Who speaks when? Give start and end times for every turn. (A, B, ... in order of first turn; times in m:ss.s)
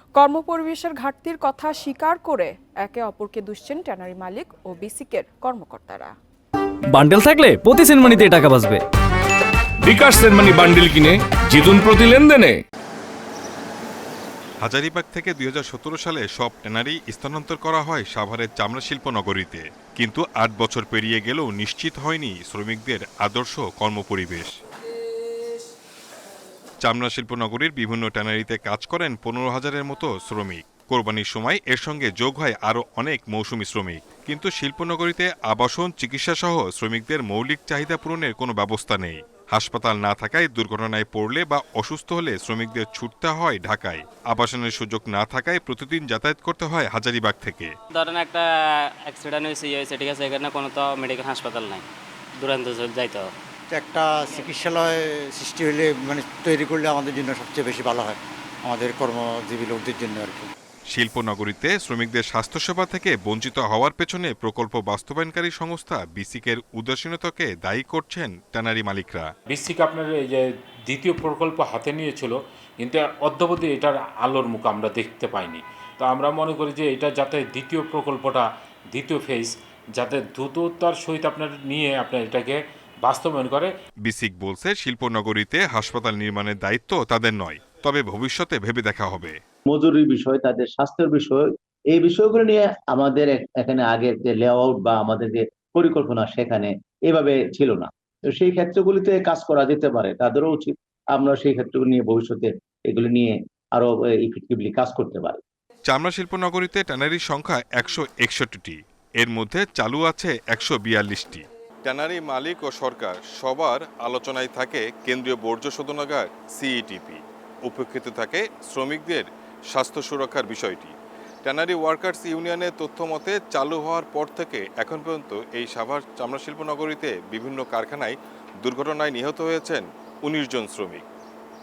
0:00.1-0:06.1 A
0:06.9-0:08.8 B
0:09.8-0:12.5 C
0:14.6-0:24.5 D
0:26.8-0:47.7 D
0:47.9-0:48.4 E
0:49.0-0:51.8 E
0:52.4-0:53.3 E
0:53.7-1:00.5 F
1:00.9-1:09.3 D
1:09.5-1:23.7 G
1:24.0-1:29.4 D
1:29.7-1:45.4 H
1:45.9-2:11.0 D